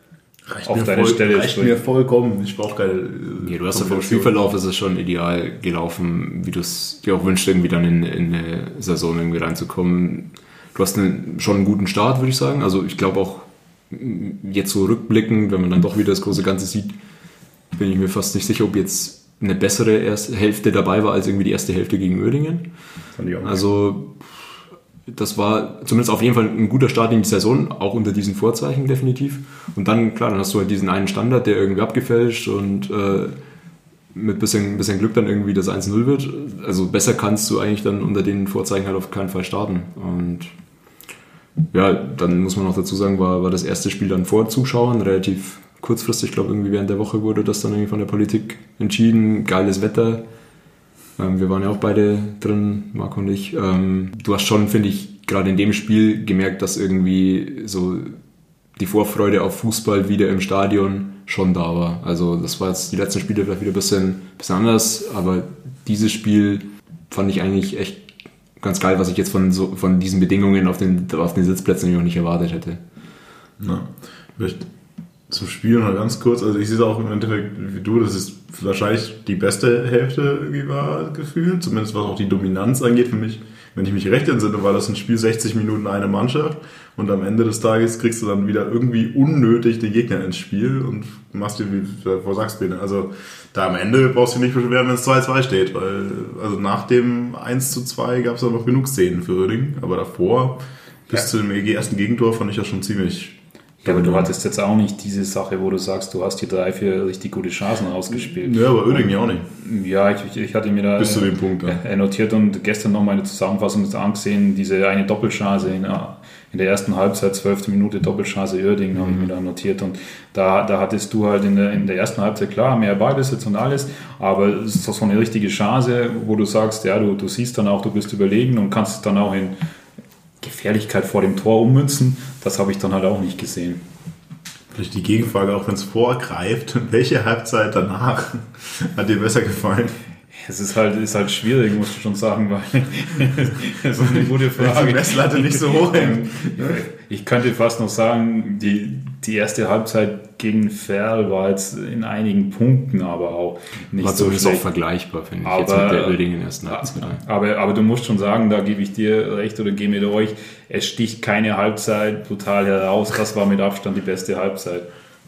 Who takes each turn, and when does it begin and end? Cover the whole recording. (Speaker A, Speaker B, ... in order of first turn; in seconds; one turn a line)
Speaker A: 0.5-4.4
Speaker B: 0.6-1.8
Speaker C: 3.4-16.9
Speaker C: 17.7-22.6
Speaker A: 23.2-23.5
Speaker C: 23.4-24.5
Speaker C: 25.1-33.4
Speaker C: 34.1-40.5
Speaker C: 41.7-50.2
Speaker C: 51.2-58.2
Speaker C: 58.8-68.0
Speaker C: 68.6-72.8
Speaker A: 73.6-74.7
Speaker A: 75.3-104.3
Speaker B: 103.8-129.6
Speaker A: 108.3-109.5
Speaker A: 111.0-111.8
Speaker B: 130.4-133.8
Speaker A: 134.7-140.0
Speaker B: 140.3-154.6
Speaker A: 144.0-146.8
Speaker C: 154.0-157.2
Speaker B: 155.4-164.9